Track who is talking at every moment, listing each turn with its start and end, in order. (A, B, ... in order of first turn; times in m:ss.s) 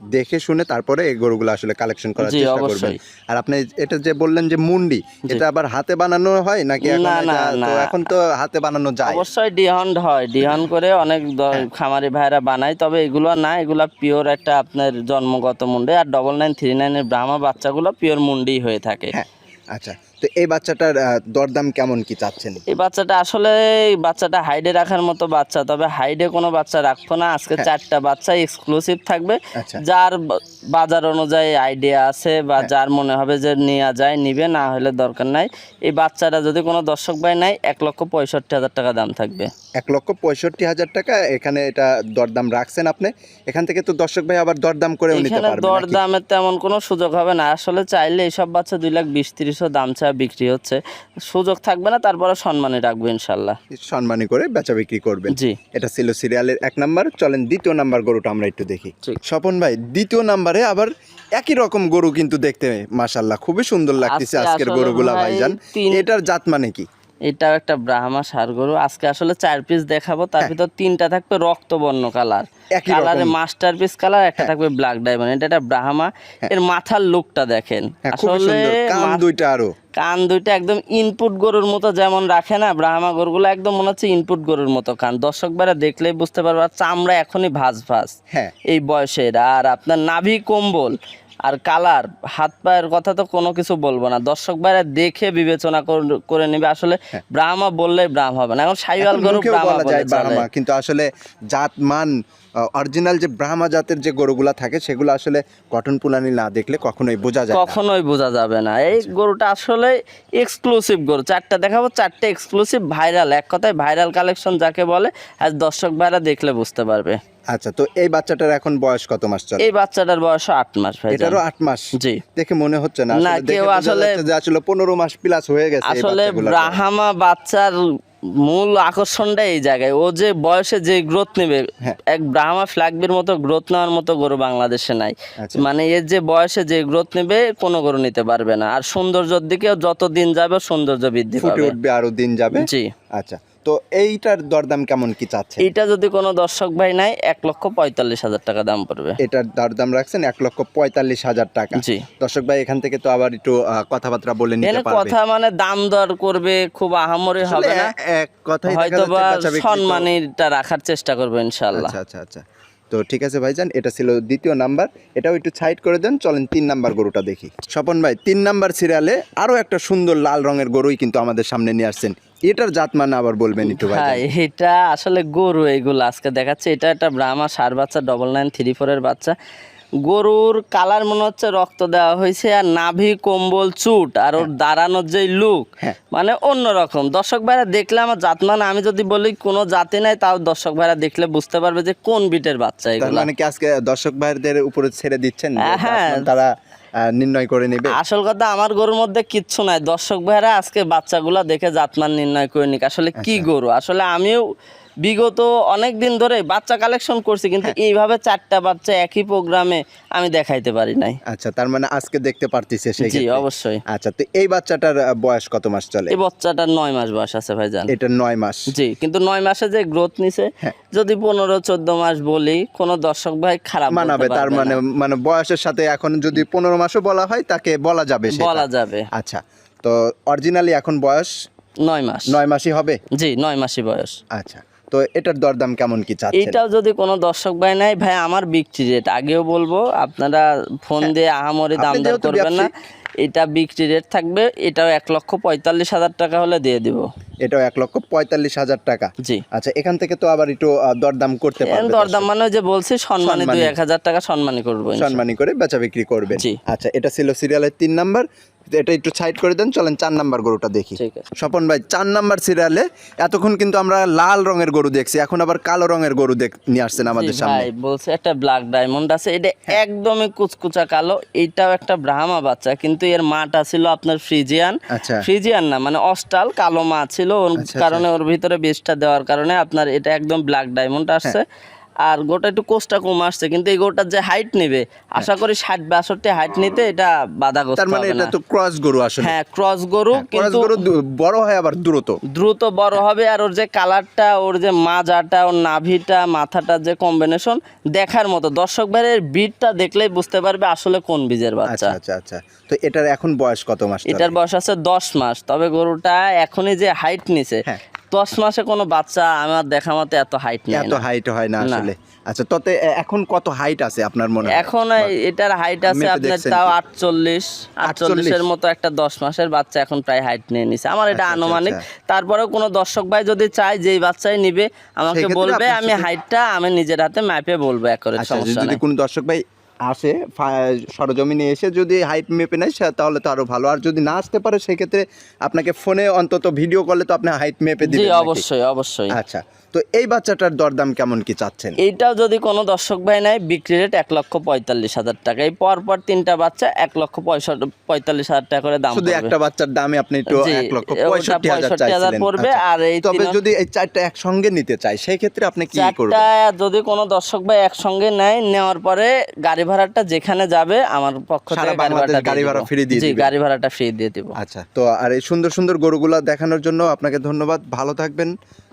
0:00.1-0:09.2 A
0:02.2-0:03.0 B
0:06.8-0:08.0 B
0:09.0-0:19.1 B
0:19.1-0:22.6 A
0:22.7-0:39.5 B
0:29.6-0:29.8 A
0:39.8-0:46.0 A
0:45.1-0:53.6 B
0:53.7-1:06.8 A
0:55.3-0:55.6 B
1:04.0-1:06.0 B
1:07.3-1:19.2 B
1:12.7-1:13.3 A
1:18.0-1:19.7 A
1:20.0-1:28.1 B
1:28.7-1:40.4 B
1:39.0-1:42.1 A
1:42.7-1:47.8 A
1:47.5-1:57.2 B
1:57.5-1:59.7 A
1:59.6-2:01.4 B
2:01.1-2:06.8 A
2:02.0-2:02.2 B
2:03.1-2:04.2 B
2:05.8-2:07.8 B
2:08.4-2:21.8 B
2:15.4-2:15.6 A
2:21.4-2:25.7 A
2:22.5-2:22.9 B
2:25.6-2:29.2 B
2:29.2-2:35.2 A
2:31.7-2:32.0 B
2:34.6-2:37.9 B
2:37.4-2:40.1 A
2:38.7-2:41.9 B
2:41.7-2:54.2 A
2:53.6-2:59.3 B
3:00.0-3:13.3 B
3:13.0-3:16.5 A
3:15.6-3:16.3 B
3:17.0-3:18.0 A
3:18.0-3:24.4 B
3:23.2-3:23.5 A
3:25.0-3:31.2 B
3:31.3-3:36.2 A
3:33.0-3:33.8 B
3:36.1-3:37.9 B
3:37.9-3:38.7 A
3:38.7-3:44.8 B
3:43.9-3:51.3 A
3:48.3-3:49.1 B
3:51.8-3:52.4 B
3:52.3-3:53.0 A
3:53.2-3:54.2 B
3:54.3-3:56.6 A
3:56.3-4:02.7 B
4:01.8-4:02.7 A
4:03.2-4:07.0 B
4:07.4-4:12.3 A
4:11.7-4:15.2 B
4:13.2-4:13.7 A
4:15.0-4:18.2 A
4:16.3-4:16.6 B
4:18.8-4:27.7 A
4:21.0-4:21.2 B
4:27.0-4:41.4 B
4:34.9-4:35.2 A
4:37.6-4:38.0 A
4:42.0-4:48.3 B
4:47.8-4:49.4 A
4:49.2-4:50.8 B
4:50.1-4:52.2 A
4:52.3-5:01.9 B
5:01.7-5:04.4 A
5:04.1-5:11.0 B
5:10.7-5:15.1 A
5:11.6-5:11.9 B
5:14.5-5:28.8 B
5:15.8-5:16.8 A
5:17.8-5:18.4 A
5:21.1-5:21.8 A
5:25.1-5:26.1 A
5:28.2-5:38.4 A
5:37.8-5:39.1 B
5:39.1-5:41.8 A
5:41.8-5:49.3 B
5:48.9-5:56.2 A
5:50.3-5:53.4 B
5:55.7-6:04.4 B
6:01.5-6:03.3 A
6:04.4-6:08.3 A